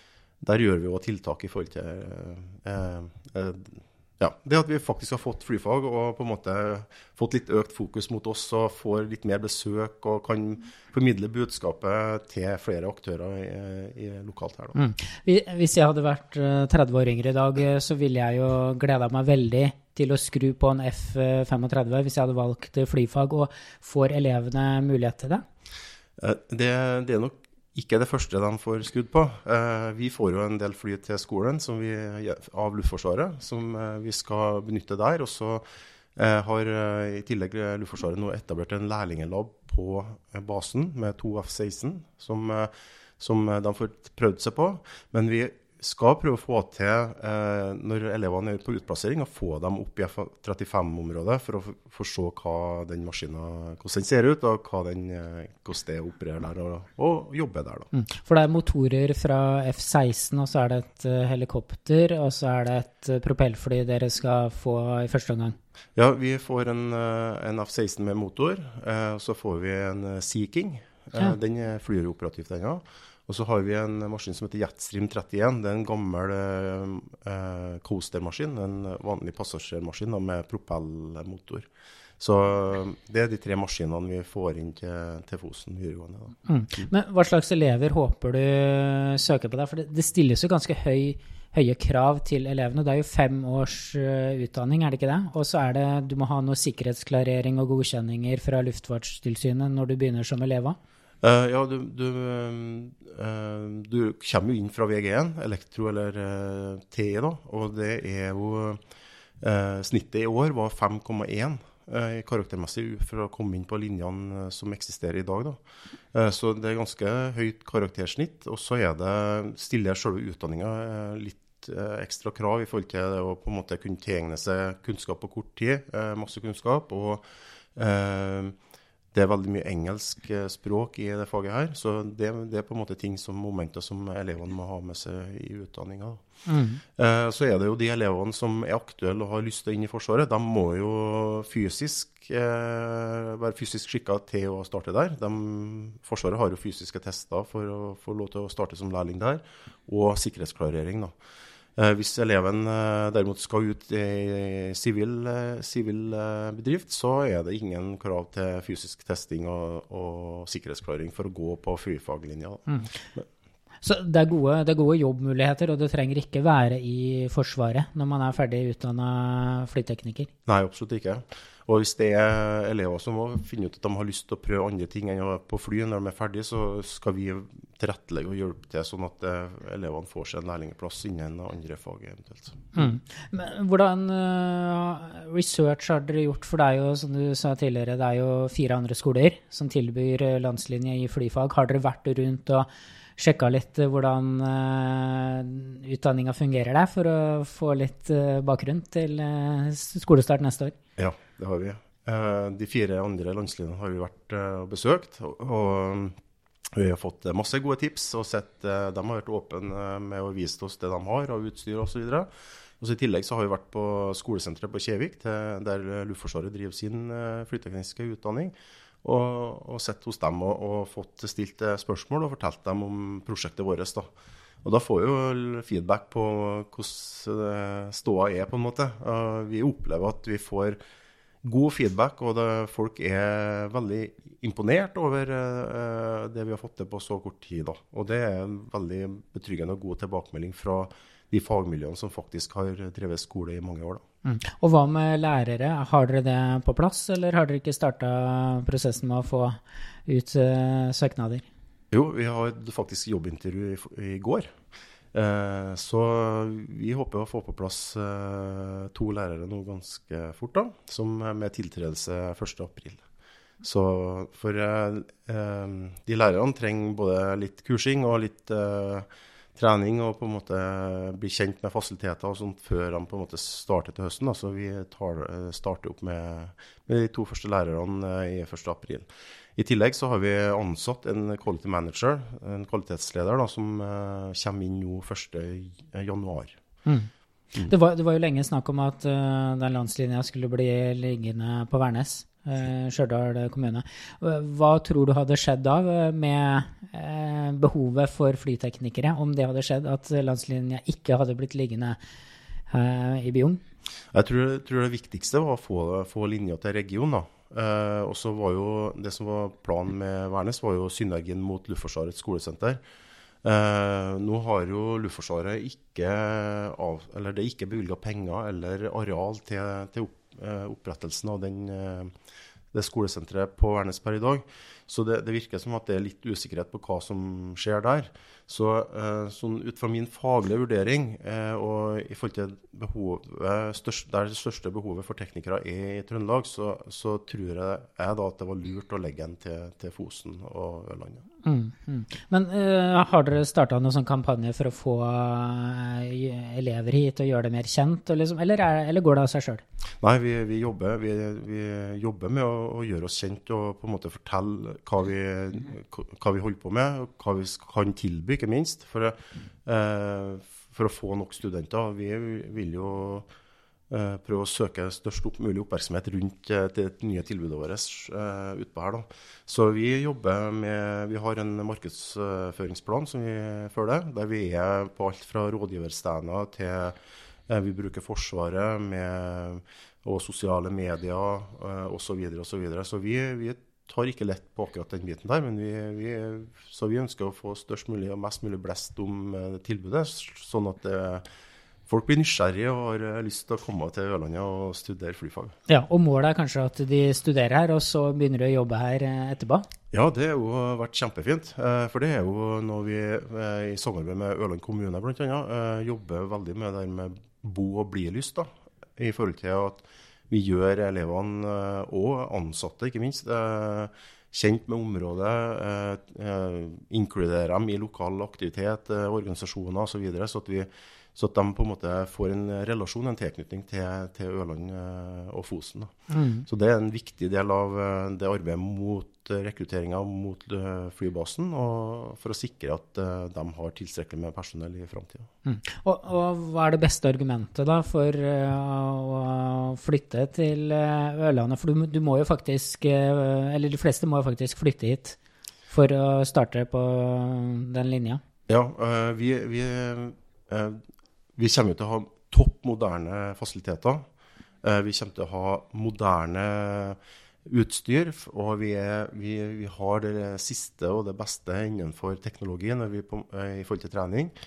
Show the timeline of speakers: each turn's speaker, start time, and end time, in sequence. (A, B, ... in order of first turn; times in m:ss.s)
0:00.4-0:14.8 A
0:14.8-0:25.4 B
0:26.2-0:35.6 A
0:36.2-0:57.9 A
0:57.9-1:05.6 B
1:06.0-1:21.7 A
1:22.2-1:26.9 A
1:26.5-1:40.8 B
1:41.2-1:48.8 A
1:49.4-1:55.6 A
1:56.1-2:07.2 A
2:07.8-2:08.5 A
2:09.1-2:16.2 A
2:16.5-2:16.8 B
2:16.8-2:31.1 A
2:31.8-2:43.2 A
2:42.7-2:42.9 B
2:43.8-2:50.3 B
2:50.5-3:02.7 A
3:02.8-3:20.8 B
3:21.0-3:26.2 A
3:26.7-3:32.3 A
3:32.8-3:44.1 A
3:44.6-3:50.8 A
3:51.4-4:04.0 A
4:04.2-4:11.4 B
4:11.9-4:14.6 A
4:15.1-4:23.0 A
4:23.6-4:46.6 A
4:47.6-5:02.0 B
5:02.7-5:03.6 B
5:04.1-5:12.8 A
5:13.4-5:22.1 A
5:22.7-5:41.2 A
5:41.4-5:49.6 B
5:50.0-6:03.3 A
6:03.9-6:17.0 A
6:17.5-6:31.2 A
6:31.9-6:35.6 A
6:35.7-6:39.7 B
6:39.9-7:06.0 A
7:06.1-7:06.4 B
7:06.5-7:15.3 A
7:15.4-7:25.2 B
7:25.7-7:28.2 B
7:28.5-7:30.8 A
7:31.4-7:34.1 A
7:34.6-7:44.3 A